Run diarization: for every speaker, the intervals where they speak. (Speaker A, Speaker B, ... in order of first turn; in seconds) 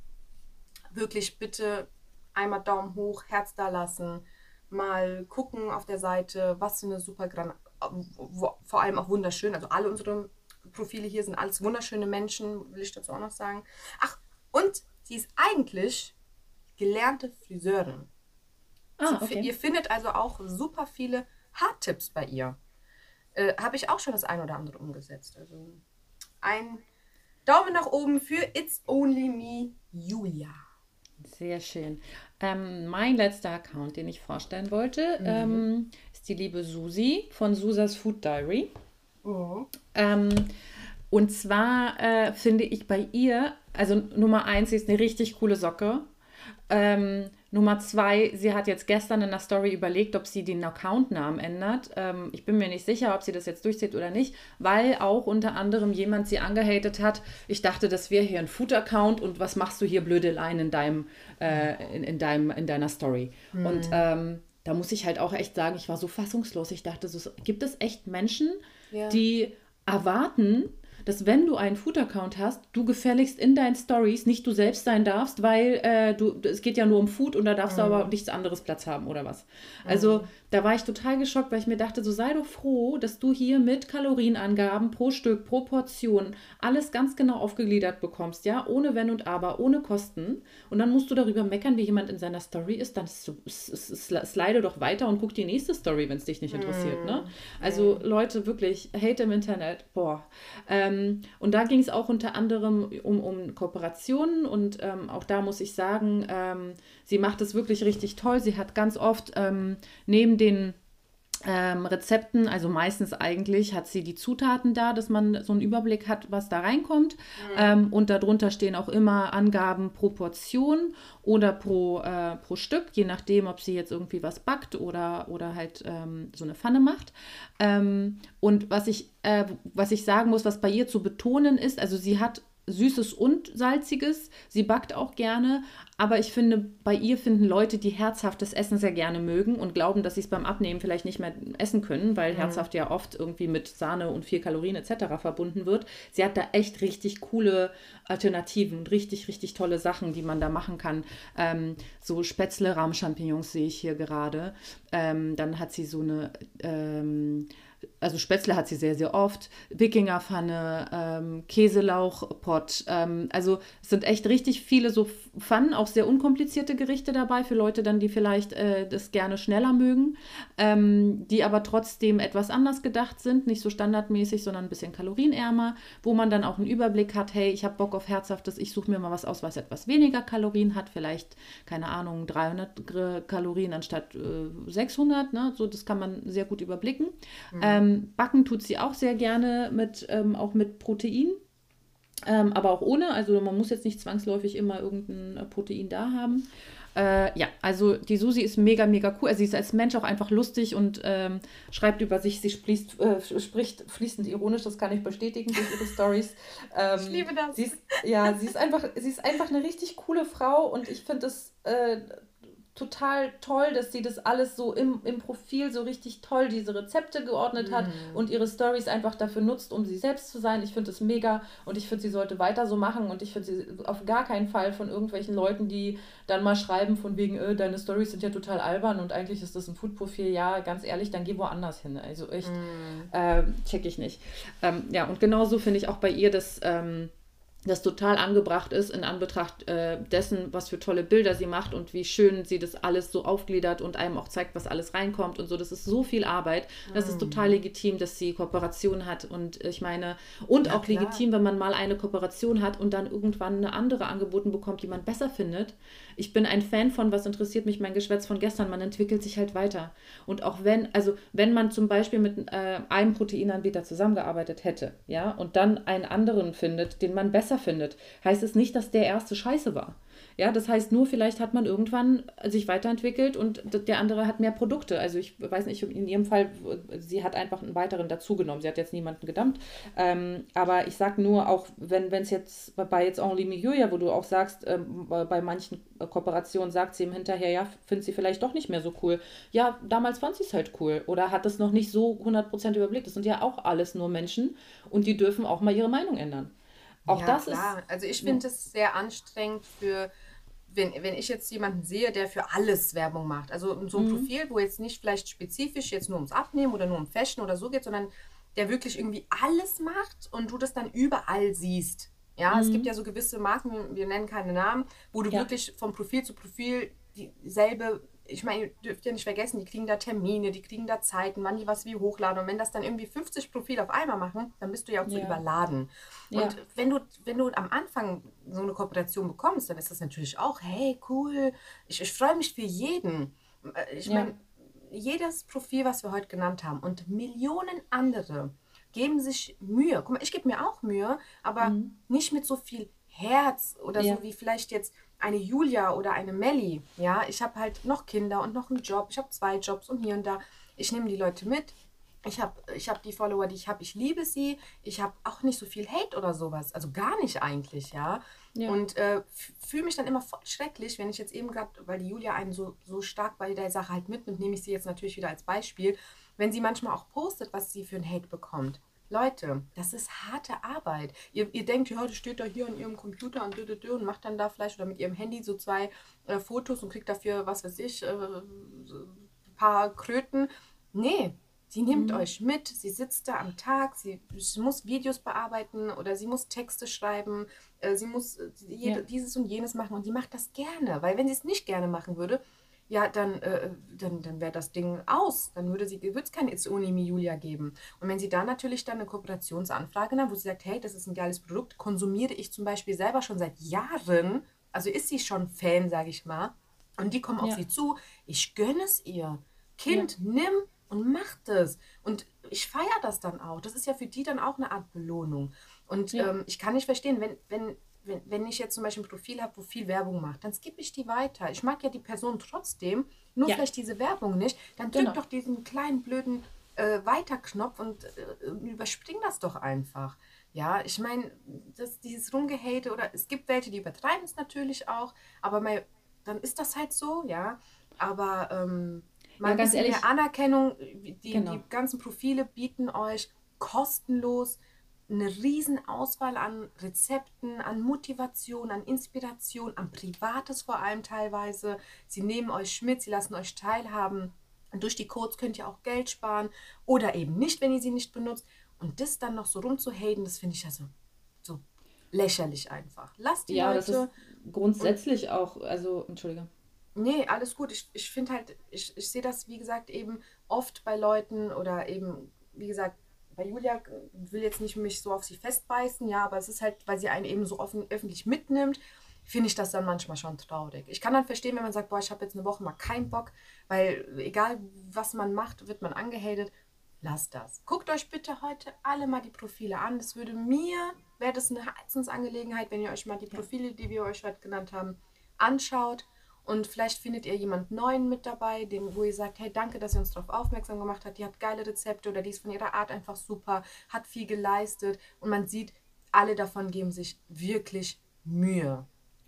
Speaker A: 0.9-16.1, 16.8-18.1, 19.1-22.6, 23.3-25.8, 26.4-26.8, 27.4-30.6, 35.2-35.6, 39.2-39.7, 63.5-64.0, 68.9-69.2, 77.7-78.1, 79.8-80.3, 96.5-98.0, 117.4-117.8, 142.3-142.7, 187.5-187.8, 205.6-205.8, 206.9-208.3, 217.6-218.2, 232.4-233.1, 246.9-247.6, 250.6-251.2, 297.1-300.1, 300.7-460.9, 461.4-464.1, 466.9-508.9
Speaker B: 19.0-19.5, 31.2-38.7, 39.9-40.5, 41.1-46.1, 46.7-110.8, 111.4-157.5, 158.0-191.4, 192.2-232.5, 233.1-237.1, 237.7-296.5, 297.0-298.4, 303.9-304.3, 312.5-312.9, 325.0-325.4, 326.3-326.6, 334.1-334.3, 341.6-341.9, 344.0-344.2, 381.9-382.3, 424.9-425.2, 439.4-440.1, 441.3-441.6, 463.5-466.5